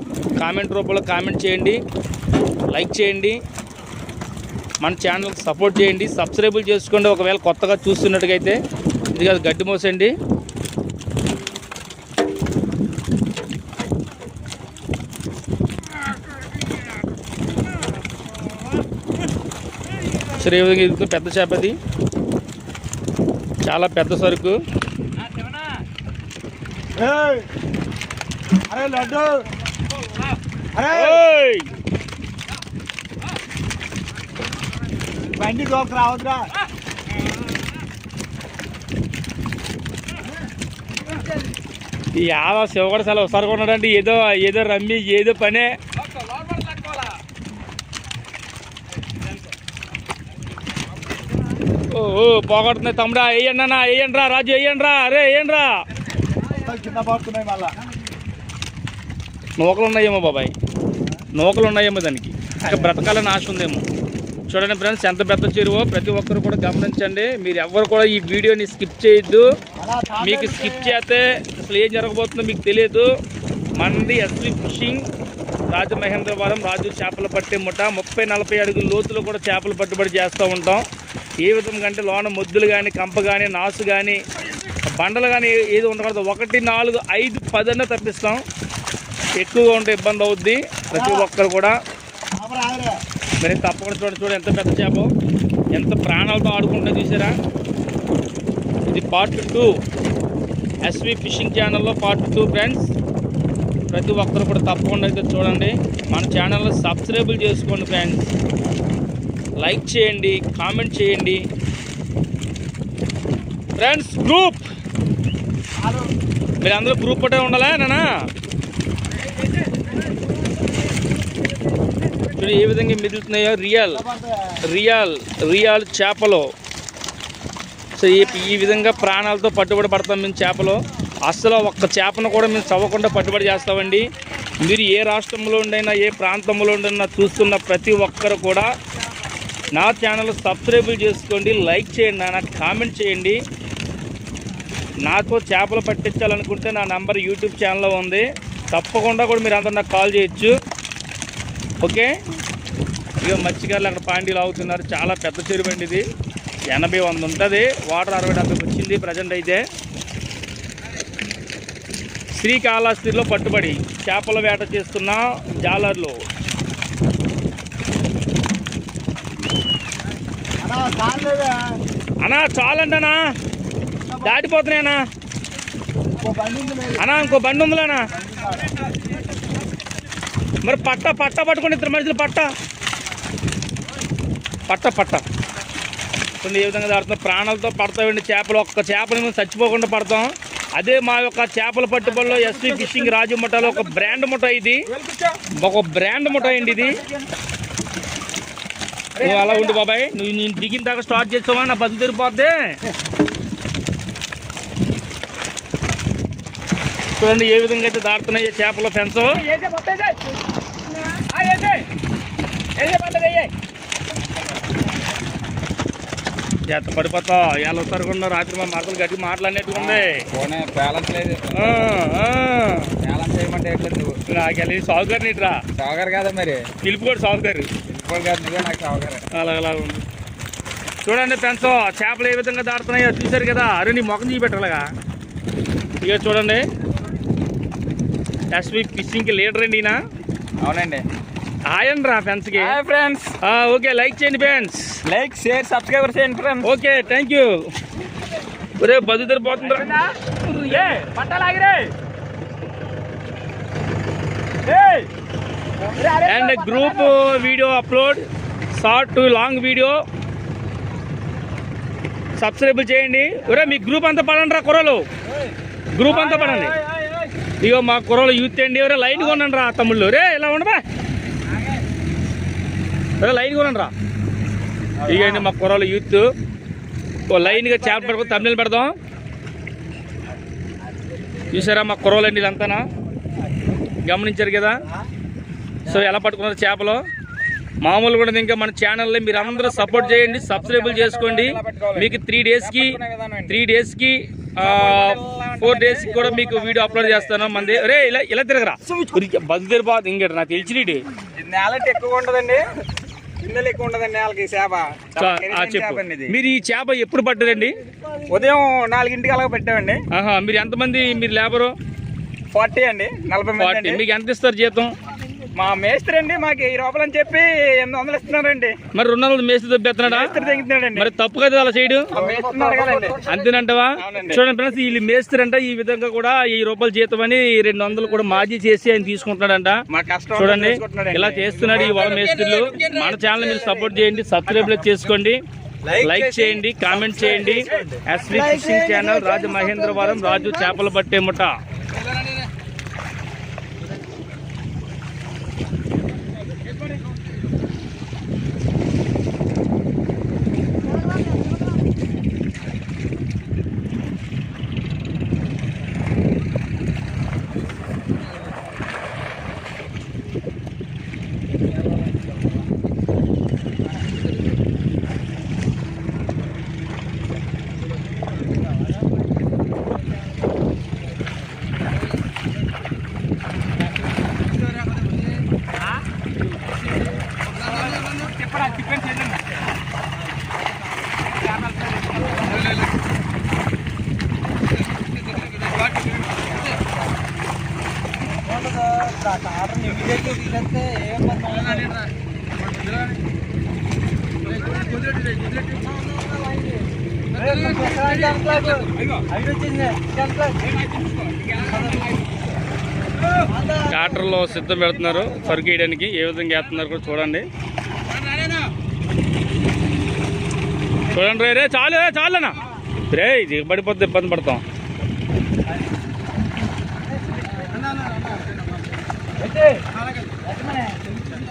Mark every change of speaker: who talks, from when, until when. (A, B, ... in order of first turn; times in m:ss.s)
0:00.4-0:01.8 A
0:02.7-0:03.4 A
0:04.8-0:08.6 A
0:09.1-0:10.1 A
0:20.3-0:21.8 A
0:23.6-0:24.6 A
0:26.9-0:27.5 B
0:28.6-0:29.4 B
0:30.7-0:31.2 B
0:30.9-0:31.7 A
0:35.3-0:36.5 B
0:42.1-0:45.7 A
0:46.2-0:47.0 C
0:51.8-0:55.7 A
0:56.5-0:57.8 B
0:59.6-1:00.5 A
1:01.3-1:03.8 A
1:02.6-1:02.9 C
1:04.5-1:09.4 A
1:09.8-1:11.0 B
1:10.2-1:13.1 A
1:13.7-1:15.0 A
1:15.7-1:20.8 A
1:21.4-1:24.2 A
1:24.9-1:28.4 A
1:29.4-1:31.7 A
1:30.9-1:31.3 B
1:32.3-1:33.0 B
1:33.4-1:35.1 A
1:35.7-1:37.3 A
1:38.9-1:39.7 A
1:40.8-1:42.9 A
1:43.9-1:48.3 A
1:49.6-1:51.4 A
1:53.8-1:54.6 A
1:55.8-1:56.1 B
1:56.6-1:58.1 A
2:02.4-2:04.0 A
2:03.9-2:04.6 B
2:04.7-2:06.5 A
2:08.0-2:18.7 A
2:19.7-2:23.4 A
2:25.0-2:30.5 A
2:31.8-2:32.1 A
2:33.2-2:36.0 A
2:36.7-2:39.6 A
2:42.3-2:46.2 A
2:50.6-2:51.8 B
2:52.2-2:53.2 A
2:54.1-2:54.4 B
2:54.2-2:55.0 A
2:56.1-2:57.0 B
2:57.0-2:58.1 A
2:58.1-2:58.8 B
3:00.6-3:02.5 A
3:04.7-3:05.2 A
3:06.4-3:14.9 A
3:12.1-3:13.1 C
3:13.6-3:14.1 C
3:14.9-3:15.4 C
3:15.5-3:17.0 A
3:16.3-3:17.2 C
3:19.2-3:19.8 C
3:19.2-3:22.7 A
3:27.2-3:29.4 A
3:29.4-3:30.2 C
3:31.1-3:31.8 C
3:32.8-3:33.5 C
3:36.7-3:40.3 A
3:39.7-3:41.9 C
3:41.5-3:42.9 A
3:43.0-3:44.2 C
3:44.3-3:45.6 A
3:45.7-3:46.6 C
3:46.8-3:47.7 A
3:47.8-3:49.2 C
3:49.3-3:50.0 A
3:51.0-3:54.9 A
3:56.0-3:56.6 A
3:58.5-4:00.0 A
4:00.6-4:01.0 C
4:01.7-4:02.8 A
4:02.5-4:03.3 C
4:03.4-4:05.0 A
4:05.0-4:06.7 C
4:06.6-4:07.5 A
4:08.8-4:09.9 A
4:09.6-4:11.9 C
4:10.5-4:11.1 A
4:14.6-4:15.1 C
4:15.9-4:17.1 C
4:16.2-4:20.0 A
4:22.4-4:25.0 A
4:25.9-4:26.8 A
4:26.1-4:27.3 C
4:27.6-4:30.8 A
4:33.2-4:33.9 A
4:35.0-4:36.3 A
4:35.1-4:35.4 C
4:37.3-4:38.9 A
4:37.4-4:38.4 C
4:41.5-4:42.8 A
4:44.0-4:44.8 A
4:45.8-4:47.0 A
4:47.8-5:01.0 A
4:49.3-4:53.6 C
4:54.6-4:57.8 C
5:01.3-5:02.6 C
5:03.4-5:06.3 C
5:05.2-5:07.8 A
5:07.6-5:08.5 B
5:08.3-5:10.0 C
5:10.1-5:11.7 A
5:12.5-5:14.0 C
5:13.6-5:14.9 A
5:15.6-5:18.8 C
5:18.9-5:20.4 A
5:20.0-5:21.1 C
5:20.9-5:22.1 A
5:22.1-5:23.3 C
5:23.2-5:29.8 A
5:24.0-5:24.4 C
5:29.9-5:34.8 C
5:30.3-5:35.4 A
5:35.8-5:38.0 C
5:36.0-5:41.6 A
5:38.2-5:40.9 B
6:17.6-6:19.3 C
6:28.4-6:31.9 B
6:37.3-6:40.7 B
6:38.7-6:39.2 C
6:40.7-6:42.2 C
6:41.7-6:42.1 B
6:43.5-6:44.2 B
6:43.8-6:47.5 A
6:45.1-6:45.5 B
6:51.1-6:52.6 A
6:53.1-6:54.6 A
6:59.4-6:59.8 B
7:00.7-7:01.0 B